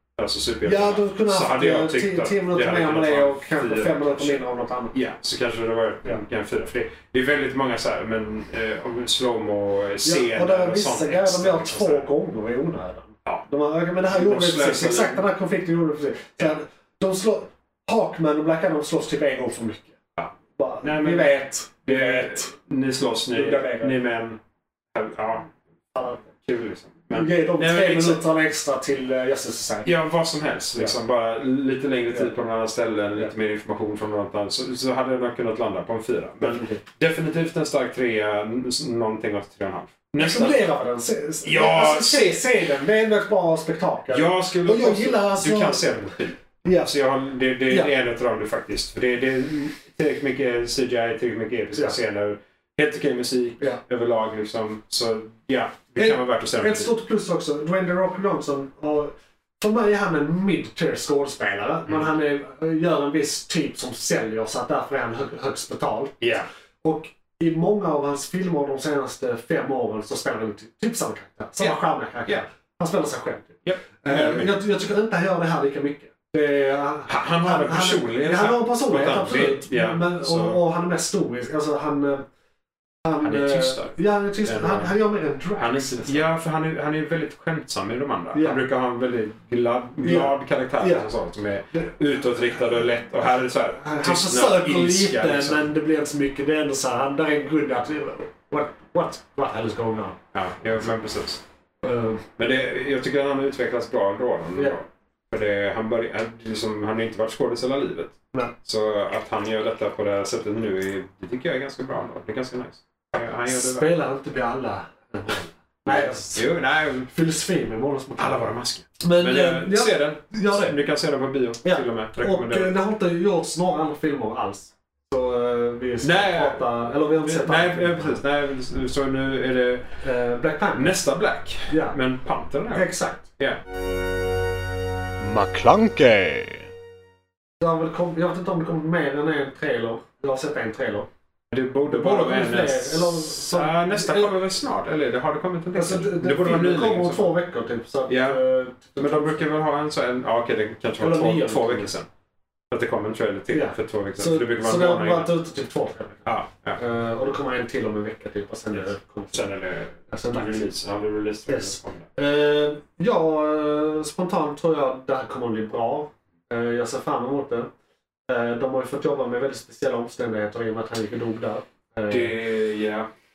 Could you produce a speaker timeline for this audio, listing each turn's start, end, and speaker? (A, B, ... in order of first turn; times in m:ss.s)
0:00.2-0:12.1 A
0:00.6-0:05.0 B
0:10.0-0:20.0 B
0:14.1-0:15.2 A
0:20.2-0:24.4 A
0:20.5-0:22.5 B
0:23.3-0:24.0 B
0:24.9-0:25.5 A
0:25.9-0:26.3 B
0:26.4-0:28.2 A
0:27.1-0:29.9 B
0:29.8-0:40.6 A
0:32.1-0:32.4 B
0:36.4-0:36.8 B
0:40.2-0:46.9 B
0:41.4-0:42.4 A
0:44.1-0:56.9 A
0:47.7-0:47.9 B
0:56.0-1:22.2 B
1:06.2-1:06.4 A
1:11.6-1:12.4 A
1:13.6-1:14.6 A
1:17.1-1:20.6 A
1:23.0-1:26.3 B
1:23.2-1:24.9 A
1:25.6-1:35.7 A
1:28.3-1:28.6 B
1:30.0-1:31.1 B
1:33.8-1:40.2 B
1:40.3-1:41.4 A
1:41.8-1:42.2 B
1:42.4-1:53.9 A
1:53.5-2:00.8 B
1:55.9-1:57.1 A
1:58.2-2:02.7 A
2:01.6-2:08.2 B
2:06.0-2:09.9 A
2:10.0-2:11.0 B
2:10.7-2:13.6 A
2:11.7-2:12.0 B
2:12.7-2:13.3 B
2:15.2-2:16.6 B
2:17.6-2:21.1 B
2:21.5-2:27.3 A
2:21.9-2:24.3 B
2:25.7-2:29.4 B
2:28.1-2:28.4 A
2:29.0-2:32.1 A
2:31.0-2:31.9 B
2:32.7-2:35.3 A
2:33.5-2:39.5 B
2:36.2-2:36.8 A
2:38.7-2:42.0 A
2:40.1-2:40.7 B
2:41.4-2:47.7 B
2:48.3-2:52.4 B
2:52.1-2:53.1 A